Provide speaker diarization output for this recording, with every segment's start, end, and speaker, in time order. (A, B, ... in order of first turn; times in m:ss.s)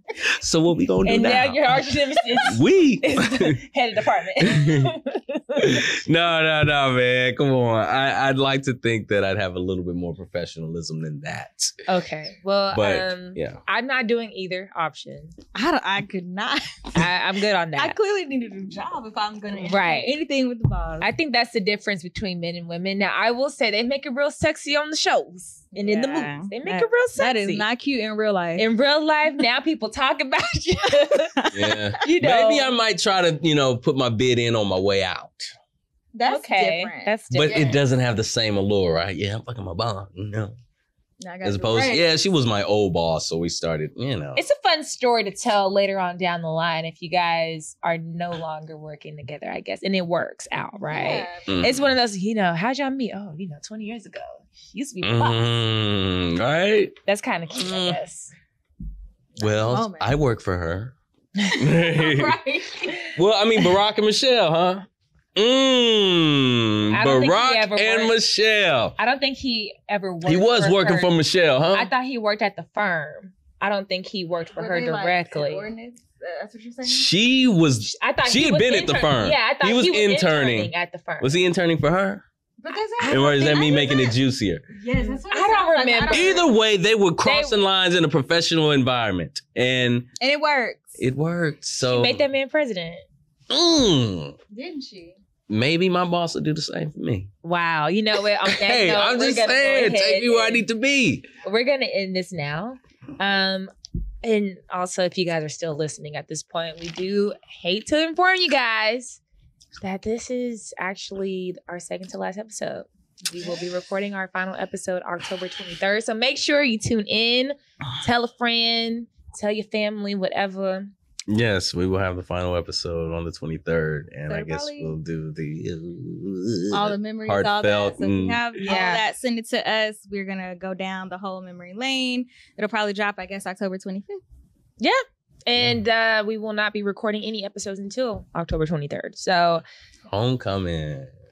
0:00.2-0:01.8 A
0:01.0-0:05.8 B
0:02.4-0:03.6 A
0:04.4-0:04.9 A
0:05.6-0:11.8 A
0:11.9-0:15.3 B
0:12.7-0:13.6 A
0:15.5-0:17.1 C
0:16.9-0:18.0 B
0:17.8-0:21.1 C
0:19.6-0:20.1 B
0:21.0-0:27.6 B
0:25.7-0:28.6 C
0:28.6-0:31.4 B
0:31.1-0:31.9 C
0:31.5-0:35.5 A
0:32.0-0:32.7 B
0:36.1-0:37.1 C
0:36.3-0:37.8 B
0:37.3-0:40.5 A
0:41.2-0:42.2 C
0:41.4-0:44.4 A
0:44.4-0:55.6 B
0:50.8-0:51.5 C
0:51.5-0:51.9 A
0:55.0-0:57.0 A
0:57.0-0:58.3 B
0:57.5-0:58.0 A
0:59.4-1:00.9 A
0:59.4-1:00.1 C
1:01.5-1:03.2 C
1:01.6-1:02.4 A
1:03.1-1:08.9 A
1:06.9-1:08.1 B
1:09.0-1:11.1 B
1:10.2-1:11.9 A
1:11.7-1:15.6 B
1:14.5-1:17.1 C
1:16.8-1:22.2 A
1:17.8-1:21.3 B
1:22.6-1:24.2 C
1:23.0-1:23.7 B
1:23.1-1:24.6 A
1:24.7-1:26.5 C
1:25.3-1:26.4 B
1:26.1-1:30.1 A
1:27.2-1:27.6 B
1:30.2-1:31.0 C
1:31.0-1:32.2 A
1:31.8-1:33.0 B
1:33.5-1:34.4 A
1:34.5-1:35.2 C
1:35.5-1:37.3 A
1:37.4-1:40.6 B
1:38.5-1:41.3 A
1:41.4-1:43.7 B
1:44.2-1:49.2 B
1:49.8-2:00.9 B
2:01.3-2:08.6 A
2:04.3-2:04.9 C
2:06.7-2:14.2 C
2:08.6-2:09.0 B
2:14.8-2:19.6 B
2:20.1-2:21.1 A